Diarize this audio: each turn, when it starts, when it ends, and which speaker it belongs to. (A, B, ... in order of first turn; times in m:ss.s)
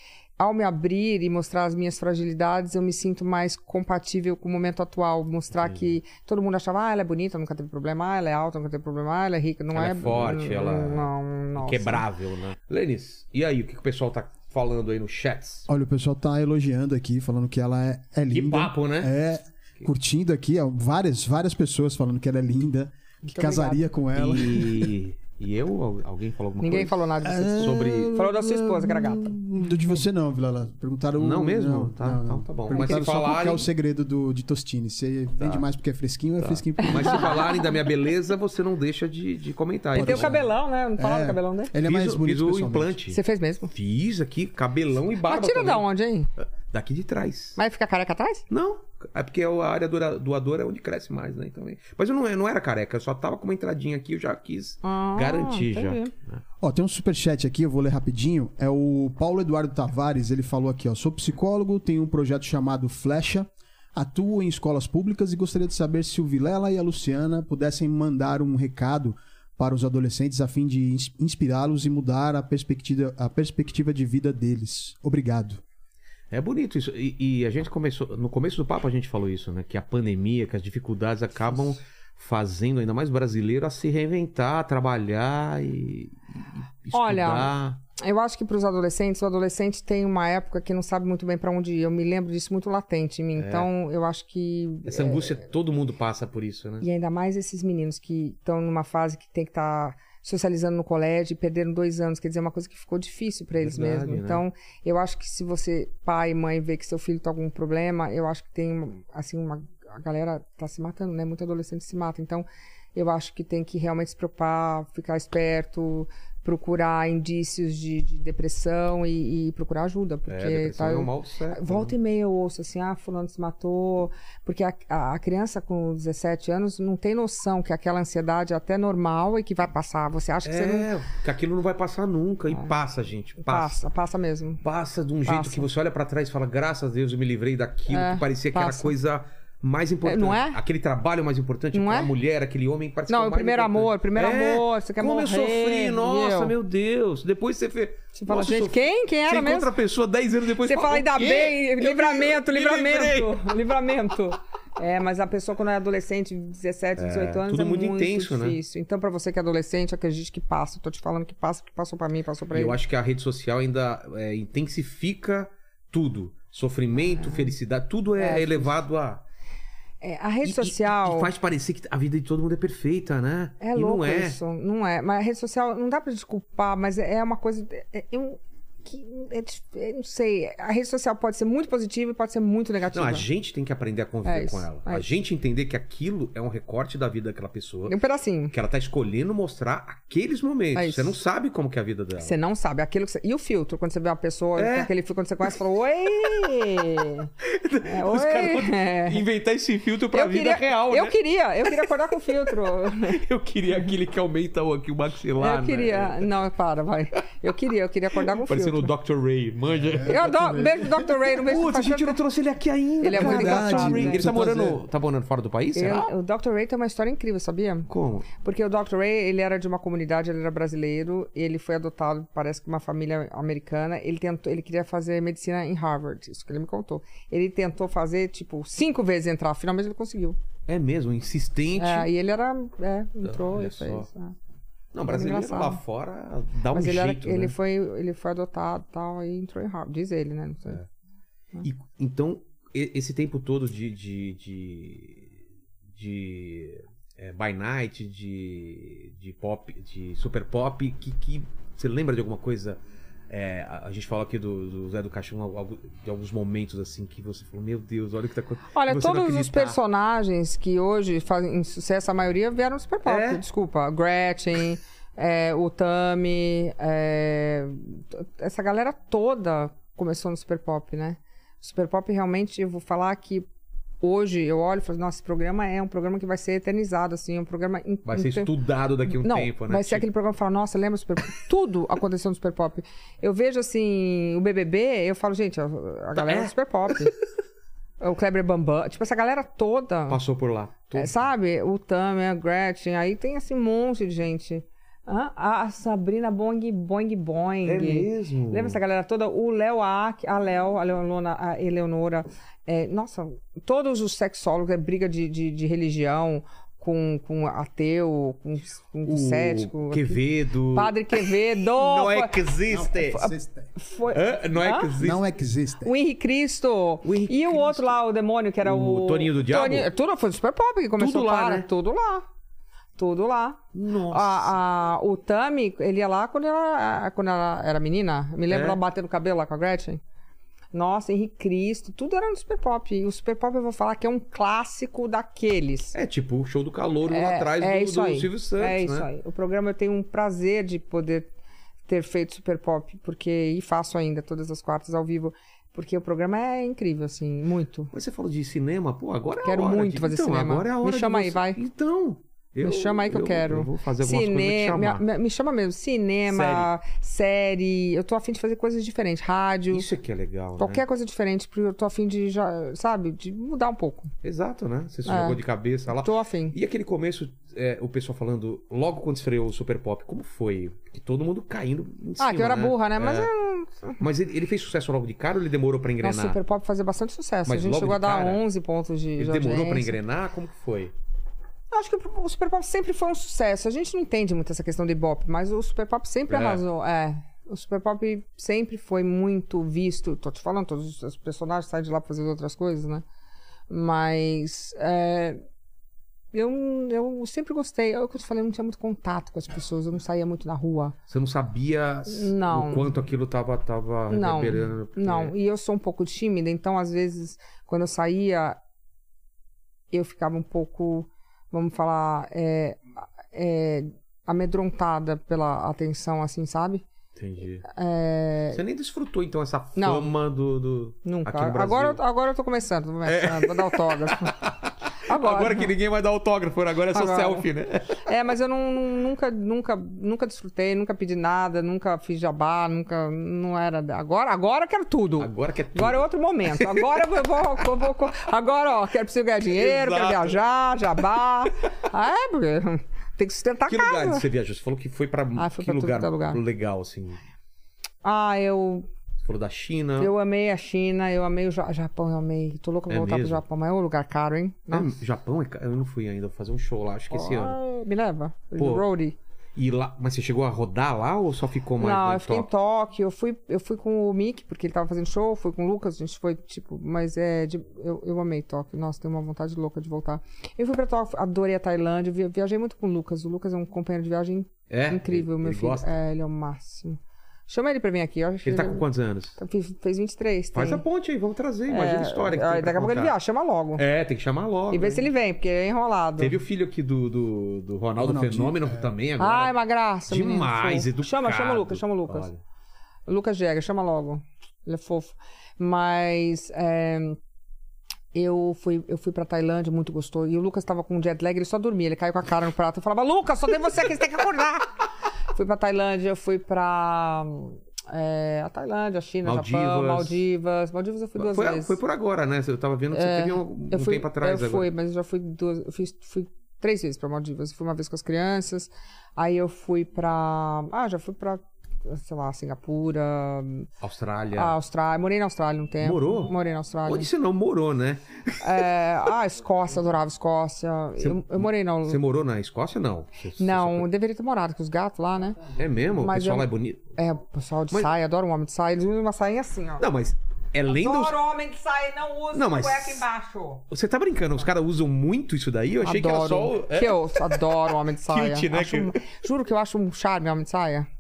0:00.4-0:12.0 A
0:05.5-0:06.0 B
0:09.7-0:15.7 B
0:15.7-0:24.9 C
0:18.3-0:19.1 B
0:23.2-0:23.8 A
0:24.1-0:27.0 B
0:26.6-0:29.4 A
0:27.2-0:37.4 C
0:27.6-0:28.1 B
0:31.2-0:33.7 B
0:35.4-0:35.7 B
0:36.4-0:40.4 B
0:36.8-0:37.8 A
0:40.0-0:40.4 C
0:40.0-0:41.7 A
0:41.0-0:43.0 C
0:41.8-0:43.2 B
0:43.1-0:43.7 A
0:43.7-0:45.9 B
0:45.3-0:46.3 A
0:46.7-0:47.6 B
0:47.6-0:48.4 A
0:48.5-0:56.4 B
0:54.8-0:56.1 A
0:56.6-1:15.6 C
1:16.3-1:27.8 B
1:26.9-1:35.4 A
1:33.4-1:33.7 B
1:34.9-1:36.8 B
1:36.8-2:10.9 A
1:43.6-1:44.4 B
2:00.3-2:01.9 B
2:10.4-2:13.8 B
2:13.4-2:14.6 A
2:14.6-2:33.6 B
2:15.3-2:15.7 A
2:17.9-2:18.9 A
2:20.0-2:20.6 A
2:21.7-2:22.1 A
2:23.1-2:26.5 A
2:28.2-2:29.7 A
2:30.6-2:42.8 A
2:37.0-2:38.6 B
2:42.5-2:49.2 B
2:47.0-2:47.6 A
2:48.2-2:48.8 A
2:50.0-2:51.3 A
2:50.4-2:54.4 B
2:53.6-3:03.3 A
3:02.9-3:08.0 B
3:04.2-3:05.1 A
3:07.9-3:08.5 A
3:08.5-3:12.4 B
3:10.8-3:11.2 A
3:12.2-3:17.3 A
3:14.6-3:14.9 B
3:17.4-3:21.9 B
3:17.8-3:19.2 A
3:20.1-3:23.2 A
3:22.4-3:26.3 B
3:25.4-3:28.9 A
3:28.2-3:30.6 B
3:29.7-3:30.9 C
3:30.1-3:32.2 A
3:31.3-3:36.1 B
3:33.0-3:34.3 A
3:33.1-3:34.8 C
3:35.8-3:50.4 A
3:37.9-3:38.3 B
3:50.7-3:52.1 B
3:51.8-3:54.4 A
3:53.2-3:54.1 B
3:54.9-3:57.6 B
3:55.1-3:55.8 A
3:56.7-4:00.8 A
4:01.6-4:05.4 B
4:05.9-4:19.8 B
4:18.7-4:33.5 A
4:23.1-4:23.4 B
4:34.0-4:38.5 A
4:38.1-4:40.1 B
4:39.0-4:47.1 A
4:46.2-4:47.2 B
4:48.0-4:50.2 A
4:50.1-4:51.2 B
4:51.0-5:12.4 A
4:57.6-4:58.8 B
5:09.1-5:13.3 B
5:12.7-5:13.7 C
5:12.9-5:14.9 A
5:14.1-5:15.3 B
5:15.0-5:15.9 C
5:15.8-5:22.2 A
5:17.0-5:18.0 B
5:18.6-5:19.9 B
5:21.0-5:21.7 B
5:23.0-5:30.0 A
5:23.7-5:24.5 B
5:28.5-5:28.8 B
5:30.7-5:36.0 A
5:35.9-5:39.1 B
5:37.1-5:41.3 A
5:41.9-5:47.9 A
5:47.9-5:55.0 B
5:49.4-5:51.6 A
5:52.6-5:59.9 A
5:56.3-5:56.7 B
5:59.7-6:00.8 B
6:00.6-6:04.1 A
6:04.2-6:13.3 B
6:05.1-6:05.4 A
6:05.9-6:06.6 A
6:12.2-6:14.0 A
6:14.0-6:16.4 B
6:16.0-6:20.0 A
6:17.5-6:18.4 B
6:19.2-6:20.9 B
6:21.7-6:33.0 A
6:26.3-6:26.6 B
6:33.7-6:35.4 A
6:36.3-6:41.0 A
6:41.1-6:45.3 B
6:42.1-6:42.9 A
6:44.1-6:48.6 A
6:49.9-6:56.8 A
6:57.2-6:57.7 B
6:57.6-6:58.6 A
6:58.5-7:02.0 B
6:59.8-7:00.1 A
7:01.0-7:04.4 A
7:03.0-7:08.0 B
7:05.1-7:05.7 A
7:06.9-7:07.5 A
7:08.0-7:24.3 A
7:15.2-7:16.9 B
7:19.5-7:20.4 B
7:23.7-7:27.2 B
7:25.4-7:26.4 A
7:28.0-7:28.9 A
7:29.2-7:30.1 B
7:30.0-7:34.9 A
7:32.9-7:33.4 B
7:34.7-7:37.6 B
7:37.1-7:39.2 A
7:38.6-7:38.9 B
7:39.6-7:42.5 B
7:41.8-7:58.9 A
7:54.7-7:56.0 B
7:58.4-7:59.4 B
7:59.4-8:00.8 A
8:00.5-8:03.2 B
8:01.7-8:03.8 A
8:03.8-8:05.0 B
8:04.7-8:06.4 A
8:06.2-8:09.5 B
8:08.0-8:08.9 C
8:09.2-8:12.3 A
8:10.1-8:12.4 B
8:13.1-8:17.2 A
8:18.1-8:24.7 A
8:25.3-8:31.8 A
8:29.2-8:30.2 B
8:31.2-8:34.7 B
8:32.9-8:43.7 A
8:43.8-8:44.6 B
8:44.4-8:47.1 A
8:45.8-8:46.3 B
8:46.9-8:48.6 B
8:48.4-8:52.0 A
8:51.0-8:53.9 B
8:53.4-8:59.8 A
8:55.6-8:56.9 B
8:59.8-9:01.2 B
9:00.7-9:03.6 A
9:02.3-9:03.0 B
9:03.7-9:07.4 B
9:05.8-9:10.9 A
9:08.1-9:09.0 B